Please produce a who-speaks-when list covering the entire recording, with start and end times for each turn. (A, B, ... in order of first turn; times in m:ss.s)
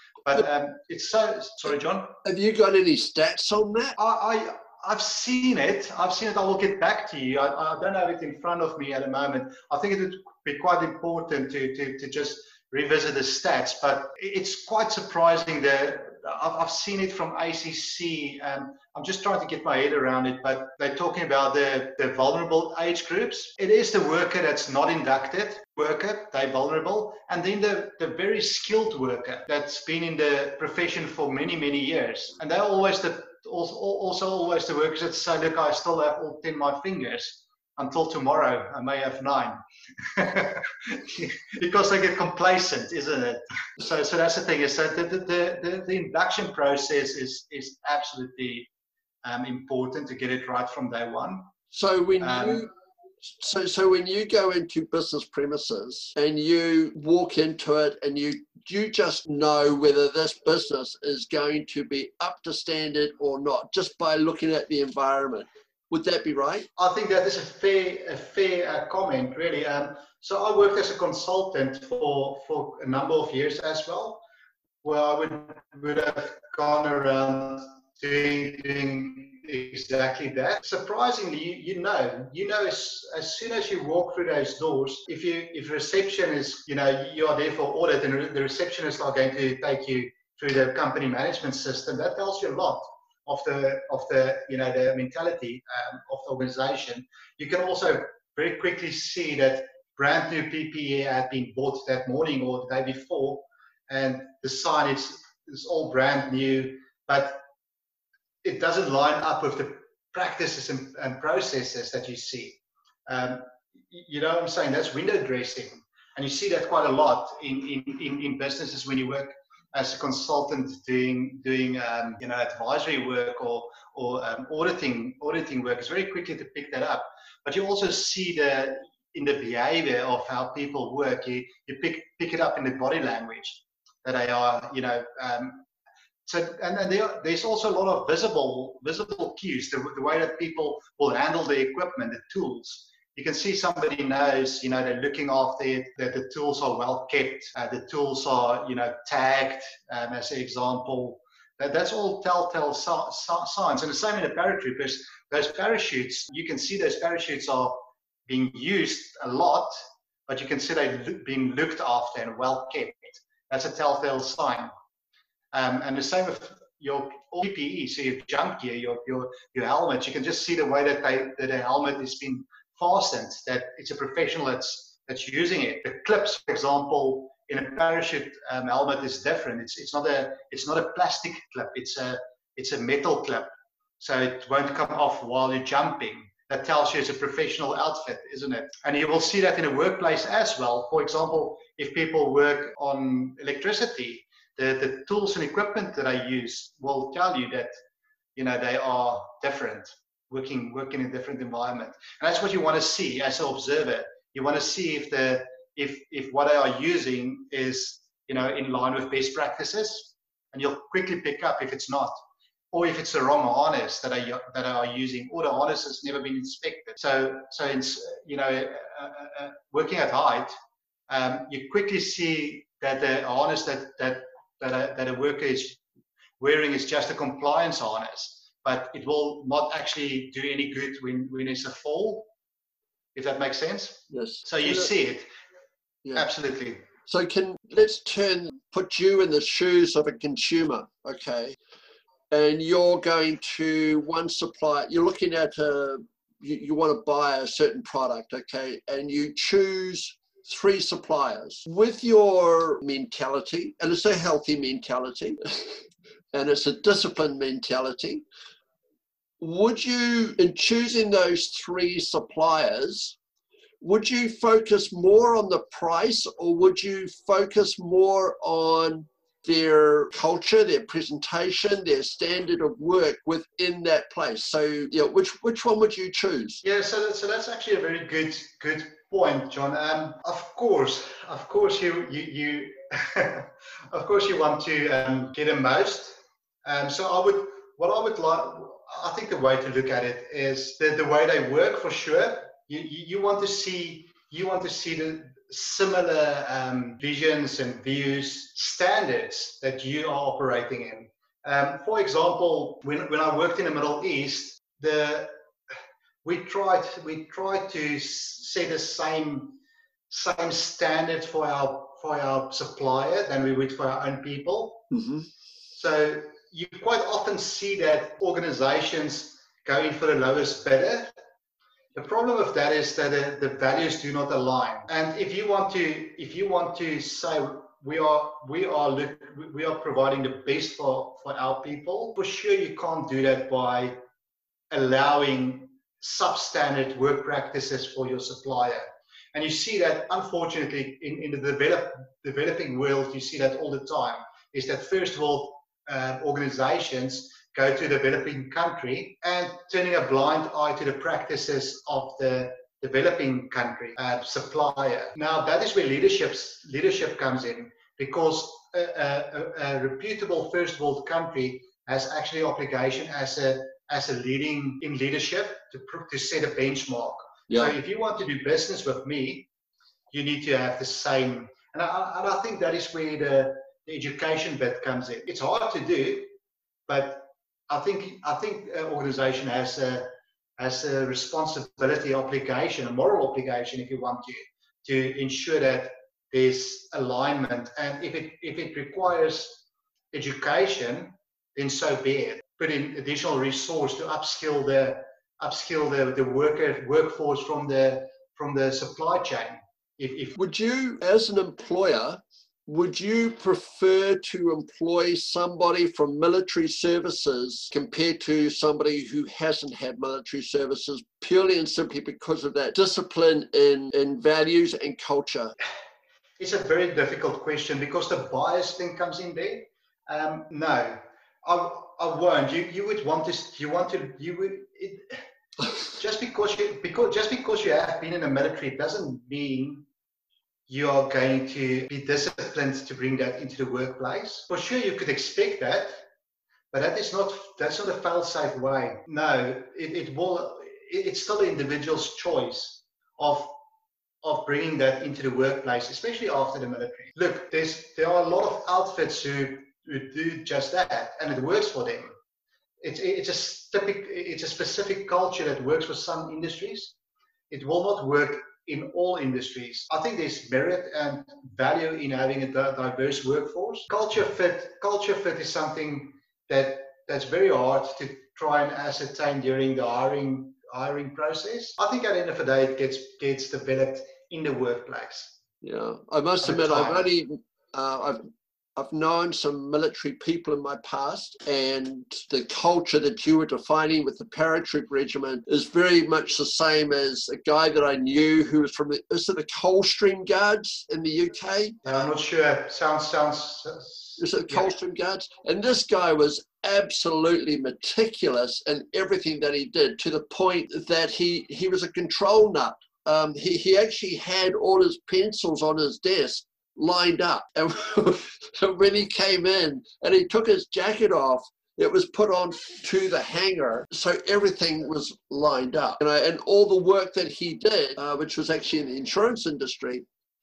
0:00.3-0:02.2 A
0:02.2-0:04.0 B
0:04.0-0:39.6 A
0:40.1-0:48.7 A
0:49.2-0:51.4 A
0:51.7-0:52.7 B
0:52.2-0:52.7 A
0:53.2-1:06.7 B
1:06.8-1:14.2 A
1:14.8-1:47.4 A
1:48.4-2:15.6 A
2:16.3-2:39.8 A
2:40.3-2:44.7 A
2:45.5-3:17.7 A
3:18.4-3:32.1 A
3:32.7-3:40.5 A
3:41.1-3:45.8 A
3:46.4-3:52.3 A
3:53.2-3:55.3 A
3:54.1-3:54.9 B
3:56.2-3:56.8 A
3:57.1-4:01.6 B
4:02.3-4:15.4 B
4:16.3-4:18.2 B
4:19.4-4:23.2 B
4:23.8-4:36.6 B
4:36.6-5:05.3 A
5:06.2-5:09.6 A
5:10.1-5:14.9 A
5:14.9-5:15.3 B
5:15.8-5:21.1 A
5:22.0-5:34.0 A
5:34.7-6:09.5 A
6:07.5-6:07.8 B
6:10.1-6:16.3 A
6:16.9-6:20.1 A
6:20.6-6:40.4 A
6:40.4-6:55.6 B
6:56.4-7:05.2 A
7:05.9-7:09.9 A
7:10.7-7:16.0 A
7:16.7-7:23.5 A
7:24.2-7:32.1 A
7:32.8-7:37.0 A
7:37.5-7:55.4 A
7:55.6-8:12.1 B
7:56.4-7:57.1 A
8:11.8-8:14.7 A
8:14.2-8:40.0 B